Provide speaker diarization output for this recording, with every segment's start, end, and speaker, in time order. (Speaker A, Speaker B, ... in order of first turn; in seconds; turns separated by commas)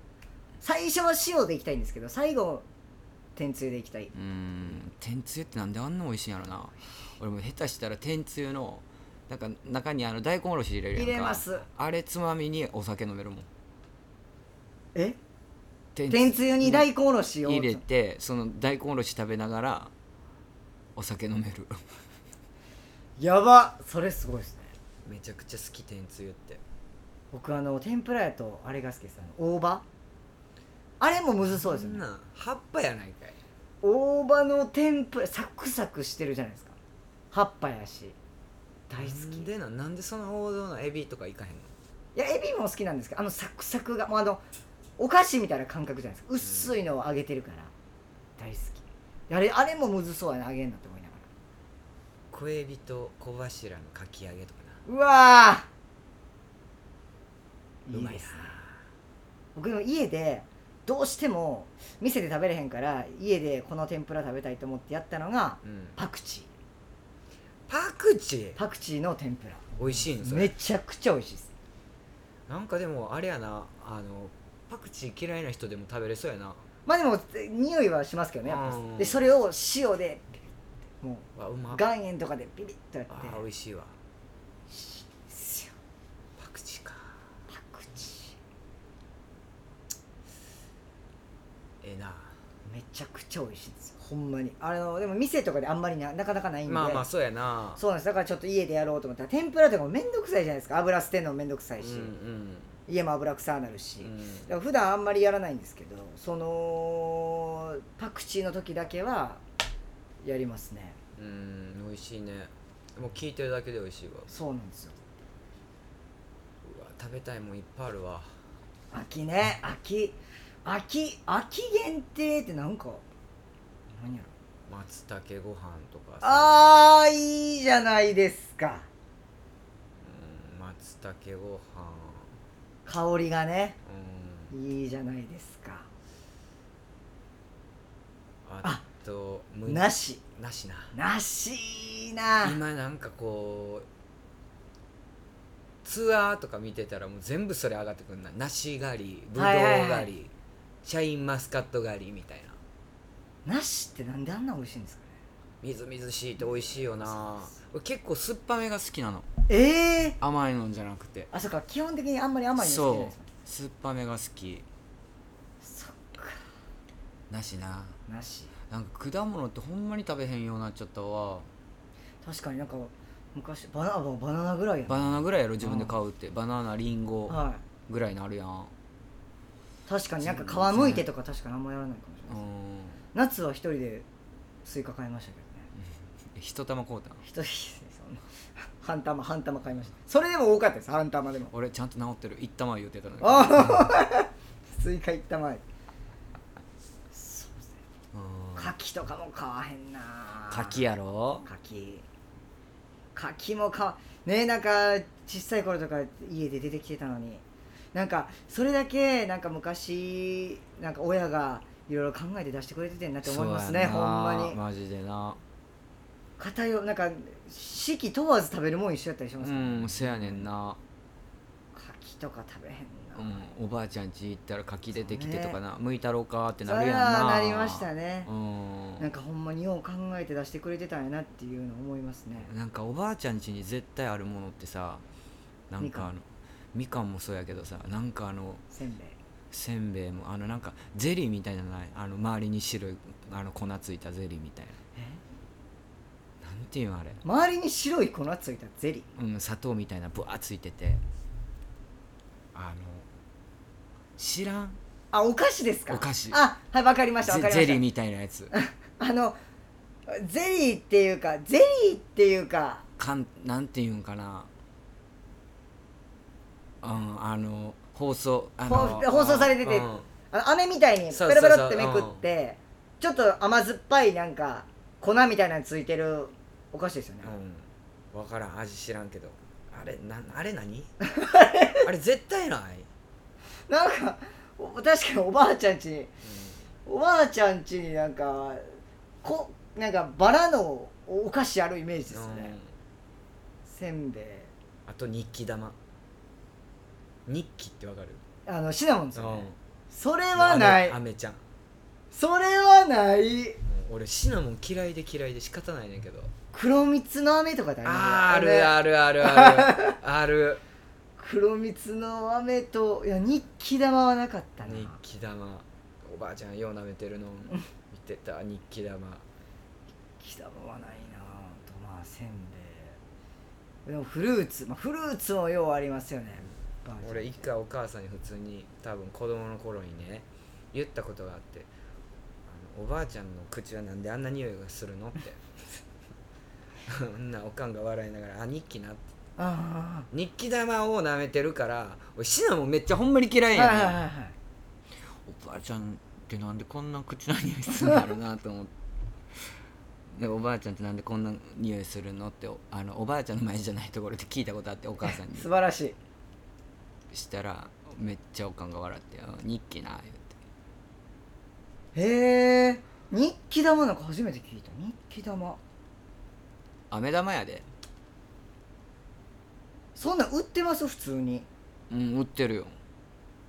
Speaker A: 0.6-2.7, Speaker A: 3.4-4.1, Speaker B: 4.1-13.5, Speaker A: 10.9-11.7, Speaker B: 15.9-16.9, Speaker A: 16.1-17.8, Speaker B: 17.5-19.9, Speaker B: 21.0-21.8, Speaker A: 23.2-24.7, Speaker B: 25.1-26.6, Speaker A: 27.3-29.8, Speaker A: 31.0-32.0, Speaker B: 31.4-33.4, Speaker A: 33.8-36.8, Speaker A: 37.3-38.2, Speaker B: 38.9-41.7, Speaker A: 38.9-39.5, Speaker A: 42.2-44.4, Speaker A: 45.0-47.7, Speaker A: 48.4-51.3, Speaker B: 52.3-54.8, Speaker A: 54.9-55.7, Speaker A: 57.9-58.5, Speaker B: 57.9-58.7, Speaker A: 59.5-66.5, Speaker B: 65.6-66.0, Speaker B: 67.7-68.6, Speaker A: 68.6-71.5, Speaker B: 69.8-70.5, Speaker B: 72.5-76.6, Speaker A: 76.9-80.4, Speaker B: 78.5-79.2, Speaker A: 81.0-83.5, Speaker B: 81.3-81.8, Speaker B: 83.1-83.9, Speaker A: 84.7-85.8, Speaker B: 86.4-87.1, Speaker A: 87.5-88.4, Speaker B: 91.8-92.3, Speaker A: 92.7-97.1, Speaker B: 96.7-97.8, Speaker A: 97.8-102.1, Speaker B: 101.8-102.7, Speaker A: 102.9-109.4, Speaker B: 104.0-104.5, Speaker A: 110.2-111.0, Speaker B: 111.2-114.3, Speaker A: 114.3-115.0, Speaker B: 116.6-118.3, Speaker A: 118.9-123.0, Speaker A: 123.9-124.3, Speaker B: 124.7-126.7, Speaker A: 126.2-128.9, Speaker B: 130.0-132.3, Speaker A: 132.9-133.8, Speaker B: 133.9-134.5, Speaker A: 134.5-135.9, Speaker B: 138.4-140.9, Speaker A: 139.7-140.2, Speaker A: 140.9-142.6, Speaker B: 142.4-143.9, Speaker B: 145.8-150.3, Speaker A: 149.3-150.1, Speaker B: 150.8-152.6, Speaker A: 153.4-155.2, Speaker B: 155.6-159.3, Speaker A: 156.4-157.5, Speaker A: 159.5-160.2, Speaker B: 160.2-161.3, Speaker A: 161.3-163.3, Speaker B: 162.6-164.7, Speaker A: 165.6-166.5, Speaker B: 167.3-168.0, Speaker A: 168.1-168.5, Speaker B: 168.7-171.5, Speaker A: 172.2-175.9, Speaker B: 174.9-178.7, Speaker A: 177.3-177.6, Speaker A: 179.9-182.4, Speaker B: 180.2-181.1, Speaker B: 182.3-183.0, Speaker A: 183.1-184.1, Speaker A: 184.7-185.7, Speaker B: 186.3-187.2, Speaker A: 187.2-188.2, Speaker A: 188.8-191.5, Speaker B: 191.5-193.9, Speaker A: 193.2-195.6, Speaker A: 197.1-197.7, Speaker B: 198.1-198.7, Speaker A: 198.6-200.8, Speaker B: 200.5-201.5, Speaker A: 201.4-202.1, Speaker A: 203.2-207.4, Speaker A: 207.9-214.6, Speaker B: 213.2-215.4, Speaker A: 216.4-220.5, Speaker B: 219.4-220.8, Speaker A: 221.7-223.5, Speaker B: 223.2-229.1, Speaker A: 224.9-225.6, Speaker A: 226.6-228.3, Speaker A: 229.0-232.5, Speaker B: 232.4-235.0, Speaker B: 235.7-238.6, Speaker A: 235.8-236.1, Speaker A: 238.7-239.2, Speaker B: 239.5-244.8, Speaker A: 245.0-245.2, Speaker B: 246.4-247.2, Speaker A: 247.2-249.1, Speaker B: 249.2-251.0, Speaker B: 252.5-253.1, Speaker B: 254.2-254.8, Speaker A: 255.1-257.8, Speaker B: 255.9-256.4, Speaker B: 257.2-258.5, Speaker A: 258.5-259.4, Speaker A: 260.1-262.9, Speaker B: 263.0-264.5, Speaker B: 266.8-270.1, Speaker A: 268.7-277.4, Speaker B: 271.1-272.2, Speaker B: 277.2-280.9, Speaker A: 281.1-281.9, Speaker B: 281.8-282.9, Speaker A: 283.7-286.1, Speaker B: 286.2-286.6, Speaker A: 286.9-288.6, Speaker A: 289.2-292.6, Speaker B: 292.1-292.7, Speaker A: 293.7-294.5, Speaker B: 294.9-295.8, Speaker B: 297.3-298.2, Speaker A: 298.5-301.0, Speaker B: 299.1-299.6, Speaker B: 300.4-301.4, Speaker A: 302.1-303.6, Speaker B: 303.6-306.3, Speaker A: 306.5-310.0, Speaker B: 307.8-310.6, Speaker A: 311.2-315.0, Speaker B: 314.6-319.2, Speaker A: 320.2-323.0, Speaker A: 323.9-327.5, Speaker B: 327.0-331.7, Speaker B: 332.5-335.4, Speaker B: 336.9-339.0, Speaker A: 339.4-340.1, Speaker B: 340.1-344.0, Speaker A: 343.5-344.4, Speaker B: 345.3-348.7, Speaker B: 350.1-355.5, Speaker A: 355.0-356.0, Speaker B: 357.1-360.3, Speaker A: 361.9-365.6, Speaker B: 366.9-367.7, Speaker A: 369.9-371.5, Speaker B: 371.9-372.8